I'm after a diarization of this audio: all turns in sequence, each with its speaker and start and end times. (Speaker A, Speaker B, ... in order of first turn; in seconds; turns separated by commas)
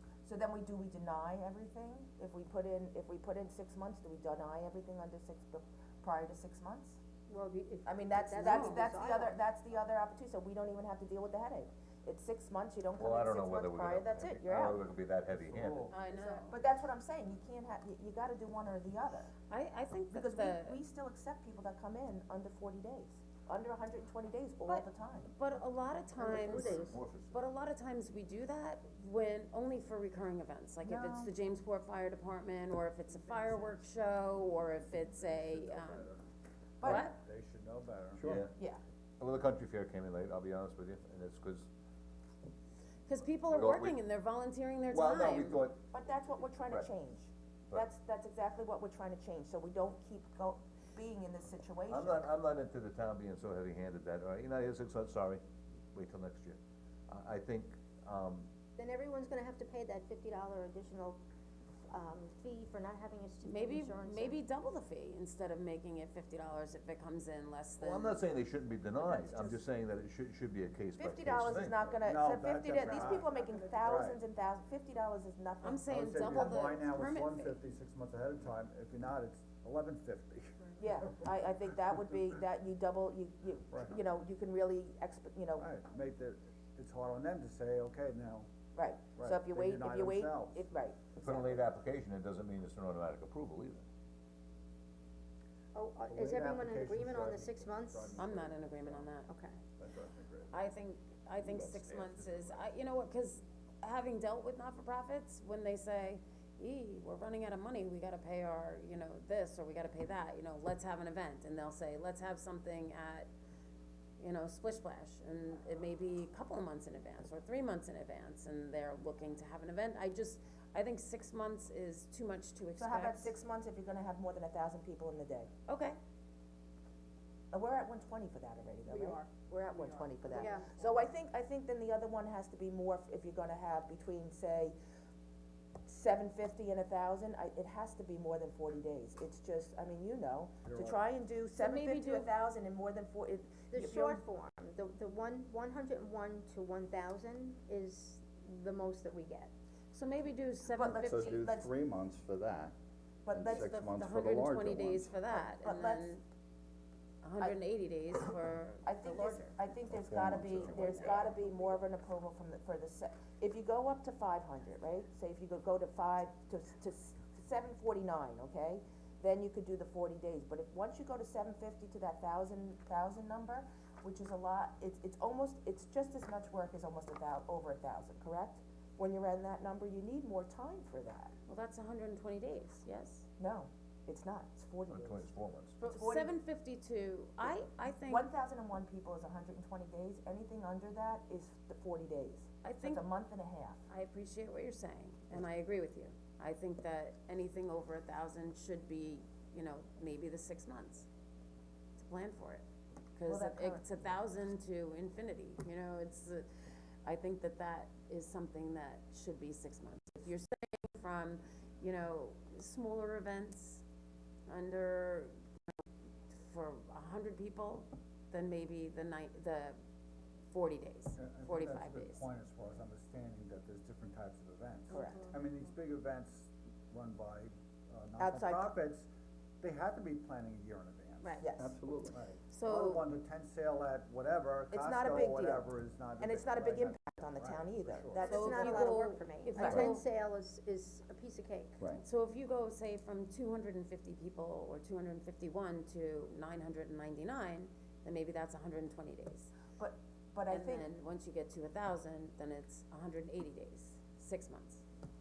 Speaker A: 0.2-7.0, Speaker B: 7.3-9.4, Speaker A: 7.8-14.8, Speaker C: 8.4-8.9, Speaker D: 12.9-15.9, Speaker E: 15.5-15.9, Speaker C: 15.9-16.5, Speaker B: 16.1-16.5, Speaker A: 16.5-19.3, Speaker C: 19.5-20.8, Speaker A: 20.1-25.3, Speaker C: 24.6-36.1, Speaker B: 26.2-27.0, Speaker D: 26.3-27.4, Speaker A: 30.8-31.3, Speaker E: 35.4-36.0, Speaker A: 36.8-37.1, Speaker C: 36.8-37.2, Speaker E: 36.9-38.4, Speaker D: 38.2-38.5, Speaker D: 39.2-41.7, Speaker C: 43.1-45.6, Speaker D: 43.5-44.0, Speaker D: 44.9-45.8, Speaker A: 45.9-52.3, Speaker D: 51.9-58.5, Speaker B: 58.8-61.2, Speaker B: 61.9-64.4, Speaker C: 63.4-68.2, Speaker D: 67.8-71.8, Speaker A: 69.0-69.6, Speaker A: 71.0-75.9, Speaker E: 72.0-73.3, Speaker E: 73.9-74.2, Speaker C: 75.6-77.6, Speaker E: 75.9-80.7, Speaker A: 80.8-85.7, Speaker E: 85.6-88.5, Speaker A: 88.7-91.6, Speaker E: 89.2-90.8, Speaker D: 91.2-93.8, Speaker B: 95.7-98.3, Speaker E: 96.1-99.1, Speaker C: 98.1-99.3, Speaker B: 99.3-99.6, Speaker E: 99.8-100.5, Speaker C: 100.5-113.3, Speaker D: 101.4-102.7, Speaker C: 114.2-123.3, Speaker A: 122.8-125.5, Speaker C: 125.7-126.0, Speaker A: 127.5-134.7, Speaker B: 130.3-130.7, Speaker A: 135.8-144.2, Speaker E: 140.7-141.0, Speaker C: 141.6-142.3, Speaker B: 143.7-149.5, Speaker C: 149.9-151.4, Speaker A: 150.7-151.7, Speaker F: 151.0-152.7, Speaker A: 153.2-153.7, Speaker F: 153.3-155.1, Speaker C: 153.3-156.2, Speaker A: 155.3-156.1, Speaker C: 157.2-159.6, Speaker A: 158.8-181.3, Speaker F: 159.9-161.3, Speaker C: 160.7-161.3, Speaker C: 181.5-183.3, Speaker A: 183.4-185.3, Speaker D: 184.9-185.8, Speaker C: 185.8-188.3, Speaker A: 185.8-186.3, Speaker A: 187.4-193.8, Speaker C: 192.6-193.1, Speaker C: 193.9-201.1, Speaker C: 202.0-202.6, Speaker C: 203.2-206.4, Speaker A: 203.3-203.8, Speaker C: 207.0-213.8, Speaker C: 214.5-215.3, Speaker C: 216.3-219.8, Speaker C: 220.5-222.3, Speaker E: 221.2-229.1, Speaker A: 224.9-225.3, Speaker C: 224.9-225.3, Speaker A: 228.2-228.7, Speaker E: 229.6-231.4, Speaker C: 231.2-231.5, Speaker A: 231.4-231.7, Speaker F: 231.6-232.2, Speaker E: 232.1-238.3, Speaker C: 232.5-233.1, Speaker A: 234.7-238.9, Speaker B: 238.2-241.8, Speaker C: 238.3-240.1, Speaker A: 239.6-239.9, Speaker C: 242.0-249.5, Speaker A: 249.8-250.8, Speaker C: 250.5-254.8